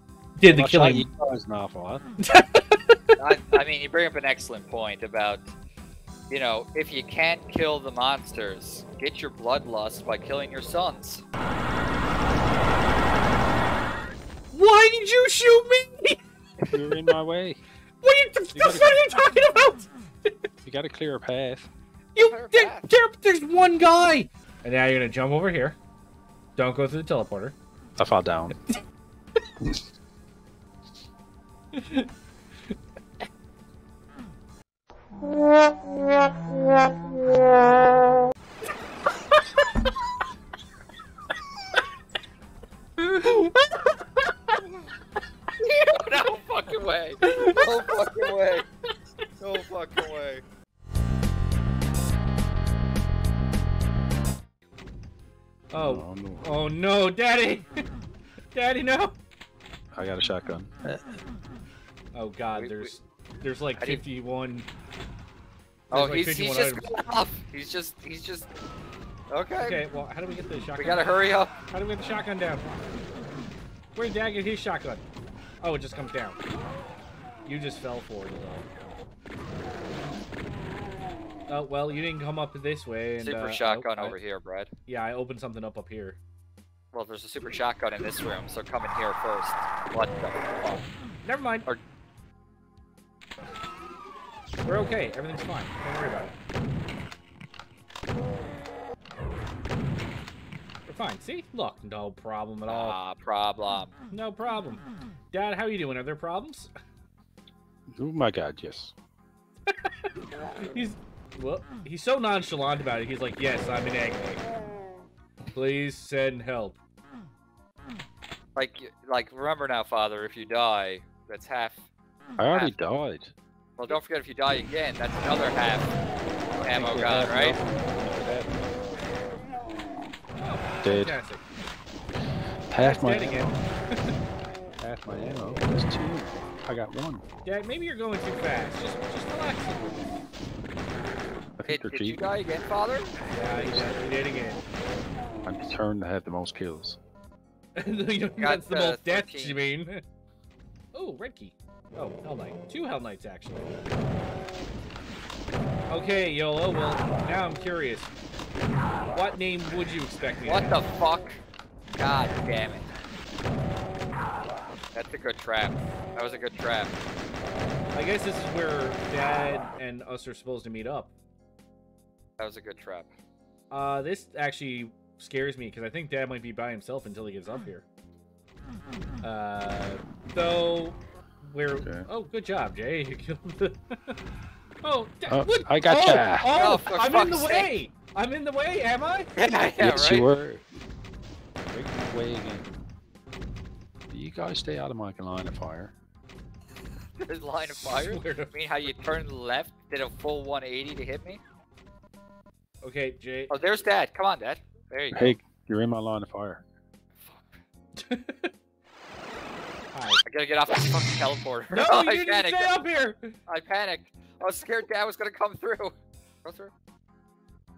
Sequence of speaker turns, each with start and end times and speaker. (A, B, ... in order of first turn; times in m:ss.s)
0:00.4-0:01.0 A
0:00.5-0:02.0 B
0:02.3-0:03.0 A
0:03.2-0:05.5 C
0:06.3-0:11.2 C
0:14.5-0:16.2 A
0:16.7-0:17.6 B
0:18.0-0:19.9 A
0:18.5-0:19.0 B
0:20.6-0:21.7 B
0:22.1-0:25.8 A
0:22.2-0:22.9 C
0:26.6-0:27.6 A
0:28.0-0:28.6 B
0:31.7-0:32.1 A
0:43.0-0:43.9 A
0:45.6-0:48.6 C
0:47.2-0:47.6 A
0:49.4-0:50.4 C
0:55.7-0:57.7 A
0:55.8-0:56.5 B
0:58.5-0:59.1 A
0:59.9-1:01.2 B
1:02.1-1:04.6 A
1:02.5-1:03.0 C
1:03.8-1:04.0 C
1:05.9-1:06.9 A
1:05.9-1:08.5 C
1:09.3-1:09.8 C
1:09.6-1:12.9 A
1:10.8-1:11.5 C
1:13.9-1:15.0 A
1:15.6-1:16.4 A
1:17.4-1:18.7 A
1:21.5-1:24.2 A
1:23.2-1:24.7 C
1:24.8-1:26.2 A
1:26.9-1:30.9 C
1:31.2-1:31.7 A
1:34.6-1:36.3 A
1:40.8-1:43.0 A
1:42.7-1:43.9 C
1:44.1-1:46.7 A
1:47.9-1:48.9 B
1:49.7-1:49.9 A
1:50.6-1:54.4 A
1:55.5-1:56.8 A
1:58.6-2:01.8 C
2:02.4-2:03.3 B
2:03.8-2:05.9 C
2:06.6-2:07.6 C
2:06.7-2:08.6 B
2:10.4-2:11.4 A
2:10.8-2:11.2 B
2:12.7-2:13.6 B
2:12.8-2:14.1 A
2:14.8-2:17.2 B
2:17.4-2:20.2 A
2:21.6-2:22.2 B
2:21.7-2:23.2 C
2:23.3-2:24.6 A
2:23.6-2:23.9 B
2:25.4-2:27.0 B
2:27.8-2:30.0 A
2:28.4-2:29.6 C
2:30.9-2:34.0 A
2:35.9-2:38.1 A
2:39.1-2:40.8 A
2:40.4-2:41.4 C
2:41.9-2:42.9 C
2:44.9-2:47.0 C
2:47.9-2:51.1 A
2:52.4-2:53.1 C
2:53.7-2:57.8 A
2:59.2-3:04.2 A
3:01.8-3:02.1 B
3:04.8-3:09.3 A
3:05.3-3:06.5 B
3:06.1-3:07.7 C
3:09.3-3:10.3 C
3:09.8-3:10.6 B
3:11.7-3:12.7 B
3:14.1-3:15.9 B
3:17.2-3:21.4 C
3:17.7-3:18.5 A
3:22.8-3:23.5 A
3:23.5-3:25.4 C
3:25.1-3:26.6 B
3:27.2-3:27.5 C
3:28.0-3:28.5 A
3:29.9-3:30.2 A
3:30.2-3:32.7 C
3:31.7-3:33.3 A
3:33.5-3:36.7 C